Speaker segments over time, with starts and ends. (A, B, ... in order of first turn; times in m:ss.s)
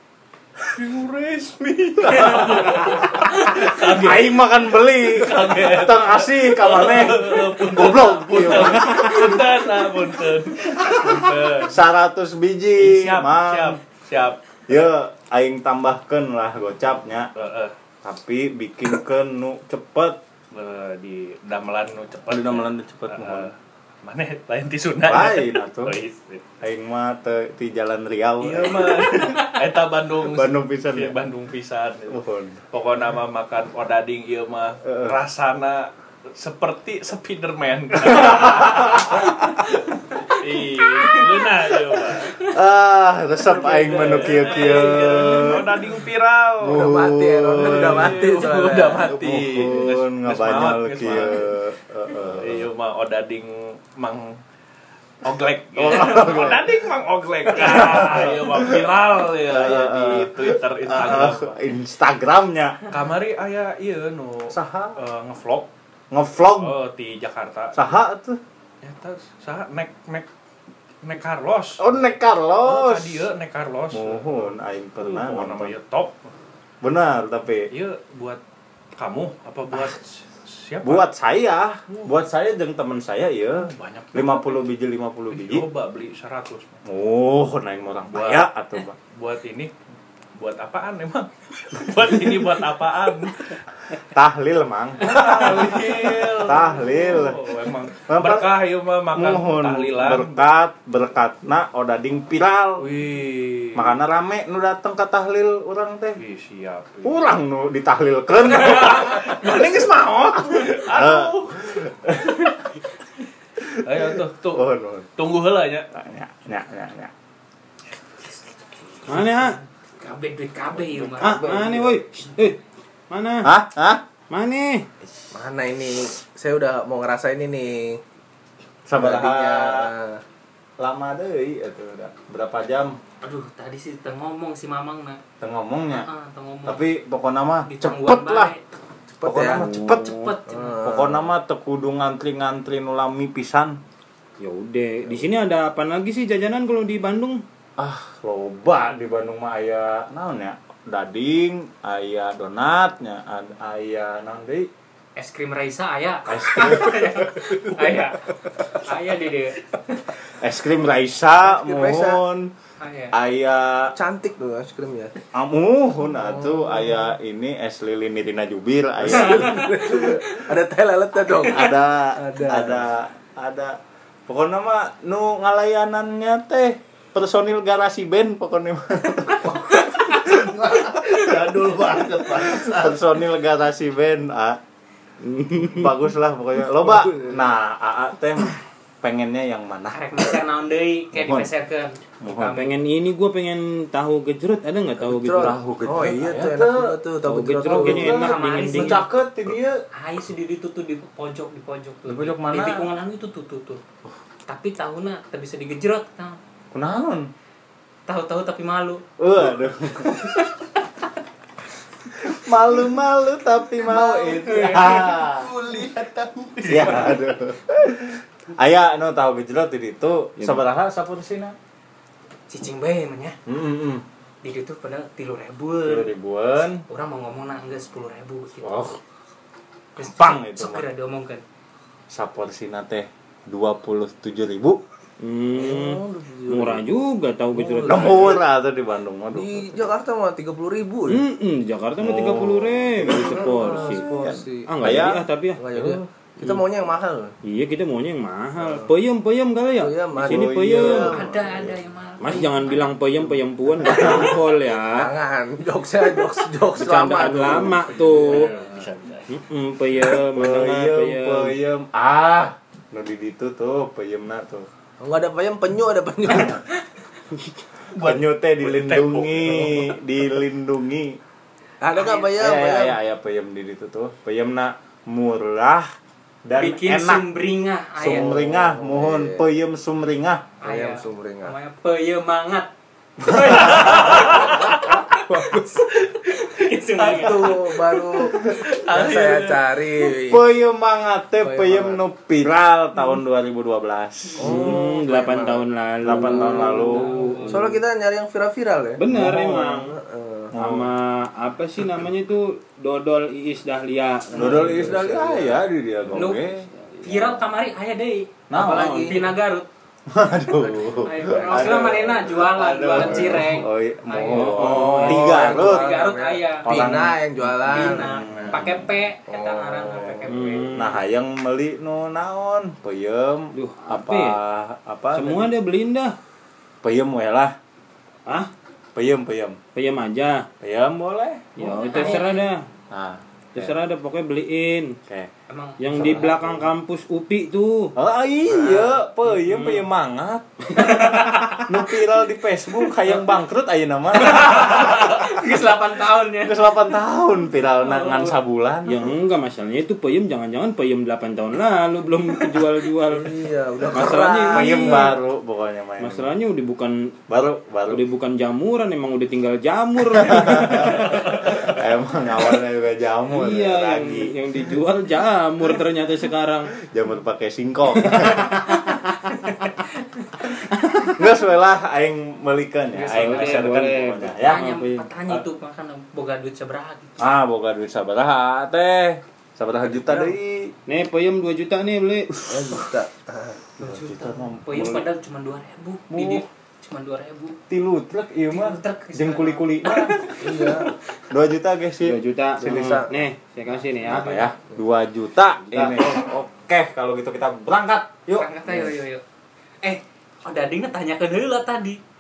0:00.7-0:04.4 A
0:02.1-0:09.9 B
0:05.1-0:11.8 A
0:10.8-0:11.1 B
0:11.6-0:13.8 B
0:12.8-0:14.4 A
0:14.7-0:17.3 B
0:17.4-0:17.7 A
0:18.0-0:20.2 B
0:20.5-0:26.4 A
0:22.3-0:23.5 B
0:25.0-0:26.0 B
0:26.6-0:29.4 B
0:28.4-0:39.4 A
0:30.2-0:31.2 B
0:32.1-0:32.6 B
0:34.8-0:35.2 B
0:38.0-0:39.3 B
0:40.2-0:42.4 A
0:40.9-0:41.3 C
0:42.4-0:45.8 B
0:43.5-0:47.0 A
0:46.6-0:48.3 B
0:46.6-0:49.2 D
0:47.6-0:51.5 A
0:49.0-0:52.7 B
0:52.2-0:54.4 A
0:55.2-1:01.6 A
0:55.8-0:56.8 B
0:57.5-0:58.9 B
0:59.4-1:02.8 B
1:02.9-1:05.7 A
1:04.5-1:05.0 B
1:06.1-1:06.8 B
1:06.6-1:08.0 A
1:07.7-1:08.4 B
1:08.8-1:10.3 A
1:11.0-1:11.9 A
1:11.8-1:13.2 B
1:12.6-1:16.2 A
1:13.9-1:15.8 B
1:16.8-1:17.7 B
1:17.7-1:18.4 A
1:19.0-1:21.1 A
1:20.8-1:25.7 B
1:23.6-1:24.7 A
1:25.3-1:26.8 A
1:26.8-1:29.0 B
1:28.1-1:28.5 A
1:29.1-1:29.7 A
1:30.4-1:33.6 A
1:34.0-1:37.4 B
1:35.0-1:40.4 A
1:38.1-1:38.5 B
1:39.1-1:42.9 B
1:42.8-1:44.0 A
1:43.8-1:46.2 B
1:46.2-1:47.3 A
1:47.0-1:49.5 B
1:48.5-1:52.5 A
1:50.5-1:52.5 B
1:53.8-1:55.9 A
1:54.0-1:55.1 B
1:55.9-1:57.1 B
1:59.1-1:59.6 E
2:00.0-2:01.6 C
2:01.0-2:01.6 B
2:01.2-2:02.6 E
2:01.3-2:01.9 D
2:03.1-2:03.5 E
2:03.4-2:04.0 B
2:04.3-2:04.9 E
2:05.3-2:08.0 D
2:08.9-2:09.9 B
2:09.0-2:10.2 D
2:10.8-2:13.0 B
2:13.2-2:15.2 C
2:15.4-2:16.1 B
2:15.9-2:16.8 C
2:16.7-2:18.5 B
2:17.7-2:18.6 C
2:19.2-2:19.6 D
2:19.2-2:20.2 B
2:19.4-2:20.3 E
2:19.9-2:20.8 C
2:20.5-2:21.3 D
2:20.8-2:23.8 B
2:24.4-2:27.4 E
2:27.8-2:34.7 B
2:35.2-2:39.6 C
2:36.3-2:37.5 B
2:40.3-2:42.5 B
2:41.4-2:42.2 D
2:42.8-2:43.2 C
2:43.1-2:43.9 B
2:44.0-2:45.1 D
2:45.3-2:49.8 B
2:46.2-2:46.9 D
2:49.1-2:52.9 D
2:49.1-2:50.1 C
2:51.4-3:04.6 B
2:59.8-3:00.3 C
3:00.8-3:03.0 A
3:05.2-3:05.9 E
3:05.6-3:10.3 B
3:09.9-3:12.7 C
3:11.1-3:11.5 B
3:12.2-3:12.6 B
3:12.5-3:15.6 E
3:15.0-3:18.2 D
3:15.4-3:17.0 B
3:17.2-3:19.0 E
3:17.7-3:19.8 B
3:18.0-3:19.1 C
3:20.0-3:23.8 C
3:22.1-3:22.9 B
3:24.5-3:26.4 C
3:26.7-3:27.3 B
3:28.1-3:29.0 C
3:29.2-3:30.4 B
3:30.1-3:30.5 C
3:32.2-3:35.5 B
3:34.1-3:36.0 D
3:34.2-3:35.1 C
3:35.3-3:37.2 A
3:36.7-3:41.6 B
3:42.5-3:43.4 C
3:43.5-3:44.0 B
3:44.4-3:46.1 C
3:45.9-3:46.8 B
3:46.9-3:48.8 C
3:48.6-3:49.0 B
3:50.0-3:51.4 C
3:50.0-3:50.8 B
3:52.1-3:54.8 B
3:55.2-3:58.4 E
3:55.5-3:56.8 D
3:57.5-3:58.4 D
3:57.9-3:59.9 B
3:59.3-4:01.2 D
4:01.1-4:06.6 E
4:02.0-4:05.3 B
4:03.0-4:04.9 D
4:05.6-4:07.4 D
4:07.4-4:11.2 E
4:08.6-4:08.9 D
4:09.8-4:11.7 D
4:10.2-4:11.6 B
4:11.1-4:12.9 C
4:12.2-4:15.1 E
4:13.8-4:18.5 D
4:16.8-4:18.5 E
4:17.9-4:19.3 A
4:19.3-4:21.5 E
4:20.2-4:24.7 B
4:25.0-4:26.6 D
4:27.9-4:29.9 A
4:28.0-4:31.2 B
4:31.8-4:33.0 D
4:31.9-4:32.4 C
4:32.4-4:35.9 B
4:36.4-4:37.3 B
4:36.6-4:38.3 C
4:38.0-4:40.5 B
4:38.0-4:39.4 D
4:40.6-4:47.7 C
4:40.6-4:41.5 D
4:43.6-4:44.6 A
4:45.2-4:45.9 D
4:47.0-4:49.6 A
4:47.0-4:50.4 D
4:50.3-4:54.7 B
4:51.4-4:52.0 D
4:54.4-4:57.8 E
4:54.4-5:00.5 D
4:56.0-4:57.1 B
4:56.8-4:57.6 C
4:59.0-5:00.0 E
4:59.1-4:59.6 B
5:00.5-5:00.9 B
5:00.5-5:05.2 E
5:04.3-5:06.7 B
5:04.4-5:05.6 D
5:06.1-5:06.4 C
5:06.8-5:07.4 E
5:07.0-5:09.7 C
5:08.5-5:09.2 B
5:08.6-5:09.3 D
5:10.1-5:16.0 B
5:10.9-5:16.9 C
5:14.3-5:15.5 E
5:14.6-5:18.6 D
5:16.6-5:18.8 B
5:17.7-5:20.9 C
5:19.3-5:20.3 D
5:20.3-5:21.0 E
5:20.7-5:25.5 B
5:23.5-5:24.4 E
5:25.1-5:26.2 E
5:26.8-5:27.6 B
5:29.0-5:29.6 B
5:29.7-5:30.5 E
5:30.6-5:32.2 B
5:31.6-5:32.7 E
5:31.6-5:32.4 C
5:32.9-5:33.7 B
5:33.6-5:35.0 E
5:35.5-5:35.8 C
5:35.8-5:37.9 E
5:35.9-5:36.7 B
5:38.0-5:41.1 B
5:39.4-5:39.8 E
5:40.8-5:41.7 C
5:41.6-5:45.3 B
5:44.2-5:46.7 C
5:46.4-5:49.1 B
5:47.8-5:48.4 C
5:48.8-5:55.2 E
5:53.1-5:55.2 D
5:54.5-5:56.3 B
5:56.0-5:57.1 E
5:57.3-5:58.0 B
5:57.9-6:01.6 E
6:00.2-6:04.4 B
6:03.3-6:06.8 E
6:06.8-6:08.5 B
6:08.0-6:09.3 E
6:08.9-6:10.5 C
6:10.7-6:11.2 E
6:11.2-6:15.4 B
6:13.0-6:15.0 E
6:14.4-6:17.3 C
6:17.2-6:20.8 B
6:20.0-6:20.3 D
6:20.9-6:22.8 E
6:22.4-6:23.6 D
6:23.8-6:27.6 C
6:23.8-6:25.1 B
6:26.1-6:26.4 B
6:27.7-6:30.4 B
6:28.5-6:31.0 C
6:30.4-6:30.9 D
6:31.3-6:32.2 B
6:32.0-6:34.5 E
6:32.6-6:33.2 D
6:34.0-6:38.5 B
6:34.2-6:34.5 C
6:35.7-6:36.0 E
6:38.4-6:39.2 C
6:39.8-6:42.0 C